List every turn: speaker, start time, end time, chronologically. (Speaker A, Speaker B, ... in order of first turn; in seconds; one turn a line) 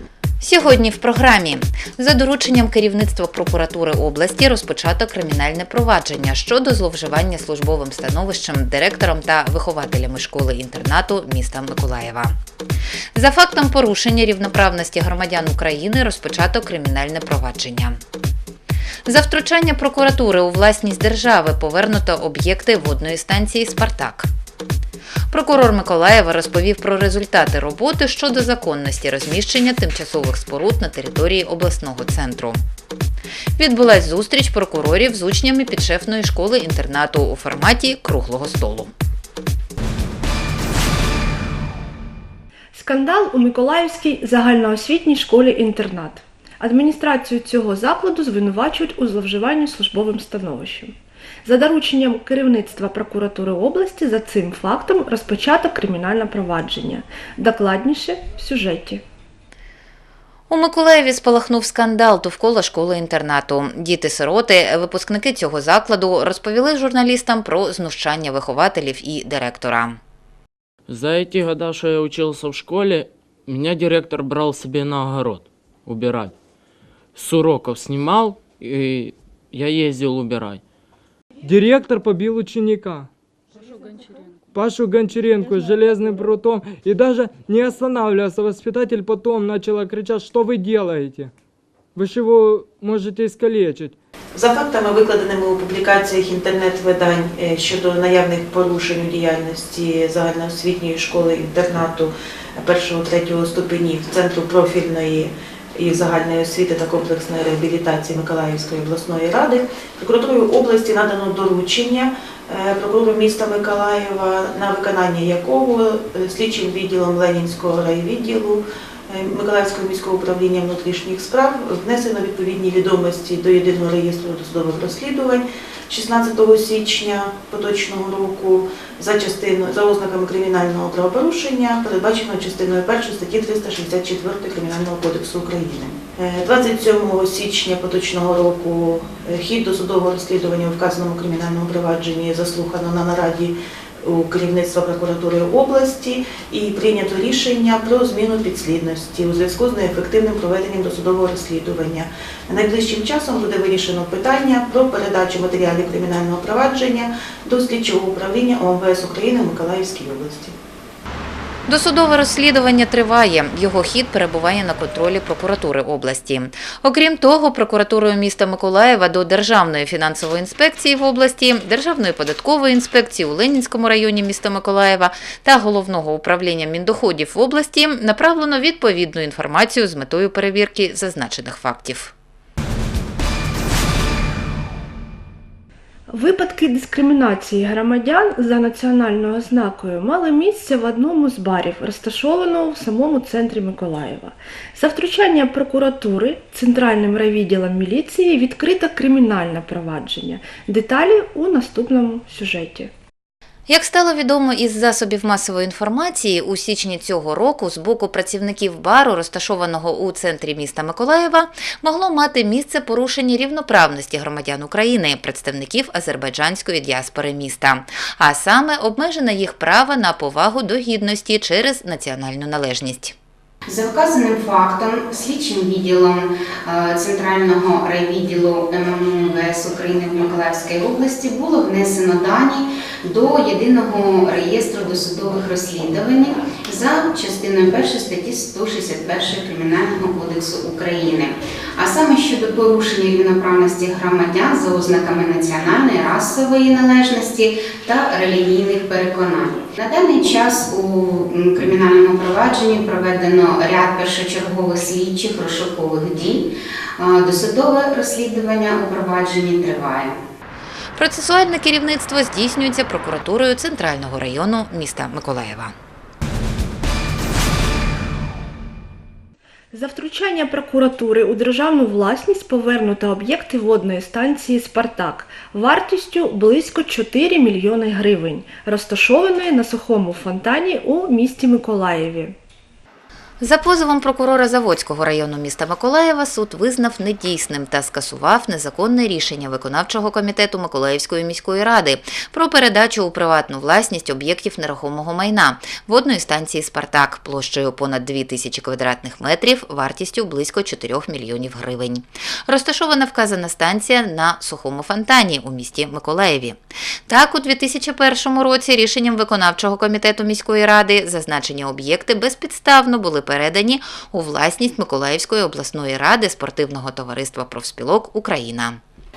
Speaker A: 0.4-12.3
Speaker A: 13.2-18.0
Speaker A: 19.1-24.3
Speaker A: 25.3-32.6
Speaker A: 33.6-38.9
Speaker B: 42.7-59.0
Speaker A: 60.5-70.0
Speaker C: 70.9-76.3
Speaker C: 77.2-80.6
Speaker D: 81.5-83.1
Speaker D: 84.5-91.3
Speaker D: 92.0-94.0
Speaker E: 94.3-160.5
Speaker A: 161.7-182.1
Speaker B: 186.1-202.9
Speaker A: 203.7-223.2
Speaker F: 223.7-260.2
Speaker A: 261.0-265.7
Speaker B: 269.7-282.4
Speaker A: 283.4-318.8